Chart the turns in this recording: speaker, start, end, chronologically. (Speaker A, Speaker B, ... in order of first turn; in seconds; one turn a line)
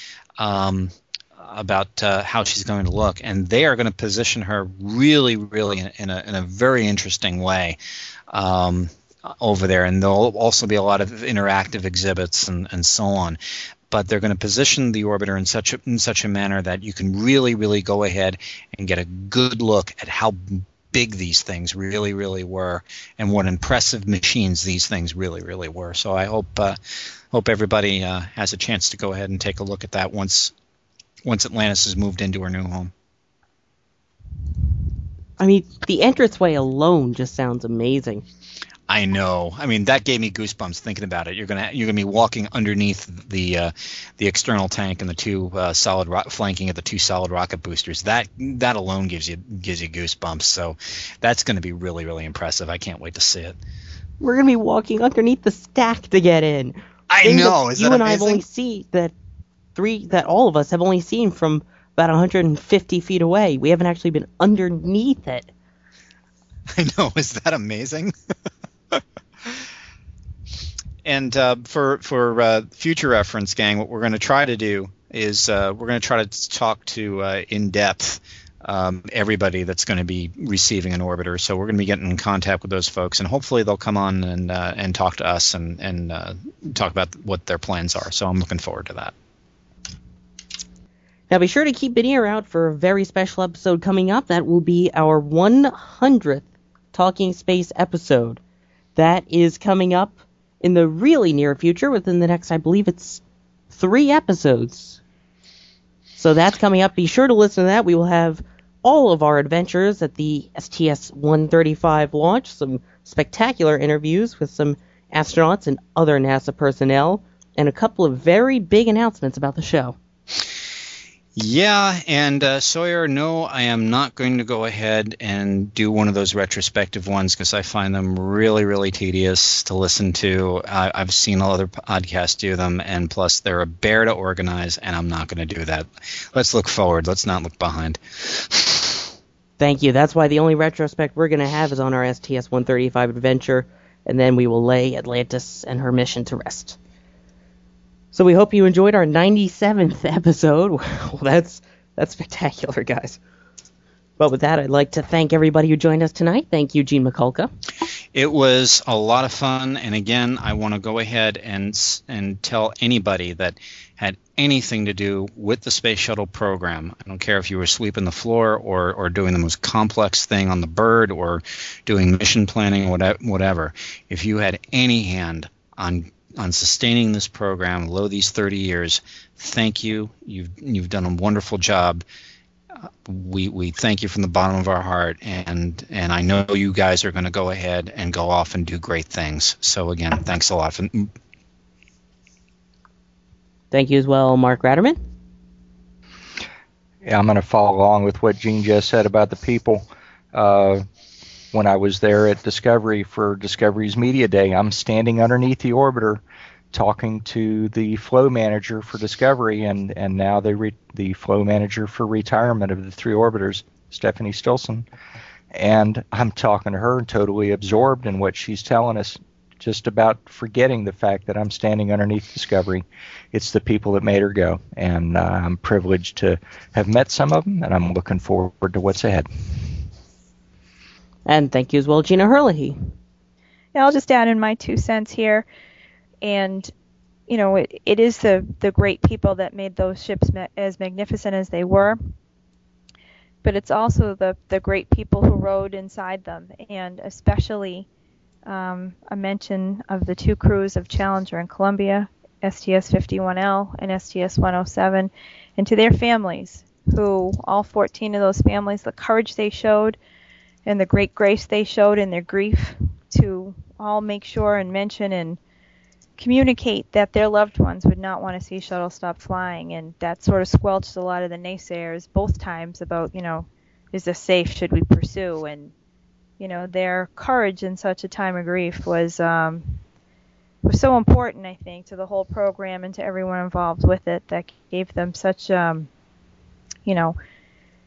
Speaker A: 0.4-7.8
Speaker A: 8.3-13.4
Speaker A: 13.9-26.8
Speaker A: 27.3-30.5
Speaker A: 31.2-32.9
Speaker B: 35.4-38.2
Speaker A: 38.9-53.6
Speaker B: 54.2-59.1
Speaker A: 57.1-58.4
Speaker B: 59.7-65.5
Speaker A: 66.7-68.1
Speaker A: 71.0-89.1
Speaker B: 91.3-98.4
Speaker B: 99.0-105.0
Speaker B: 106.2-120.0
Speaker A: 121.3-139.1
Speaker B: 139.6-146.8
Speaker B: 148.1-153.2
Speaker B: 154.2-157.5
Speaker A: 158.1-182.0
Speaker A: 183.0-191.1
Speaker B: 193.7-195.0
Speaker C: 197.0-200.8
Speaker C: 201.5-214.8
Speaker C: 215.5-229.3
Speaker B: 231.2-232.8
Speaker D: 233.7-235.4
Speaker D: 236.2-236.7
Speaker D: 237.3-242.0
Speaker D: 243.4-247.8
Speaker D: 248.4-260.0
Speaker D: 260.6-265.4
Speaker D: 266.2-275.7
Speaker D: 276.4-279.8
Speaker D: 280.6-285.9
Speaker D: 286.8-287.2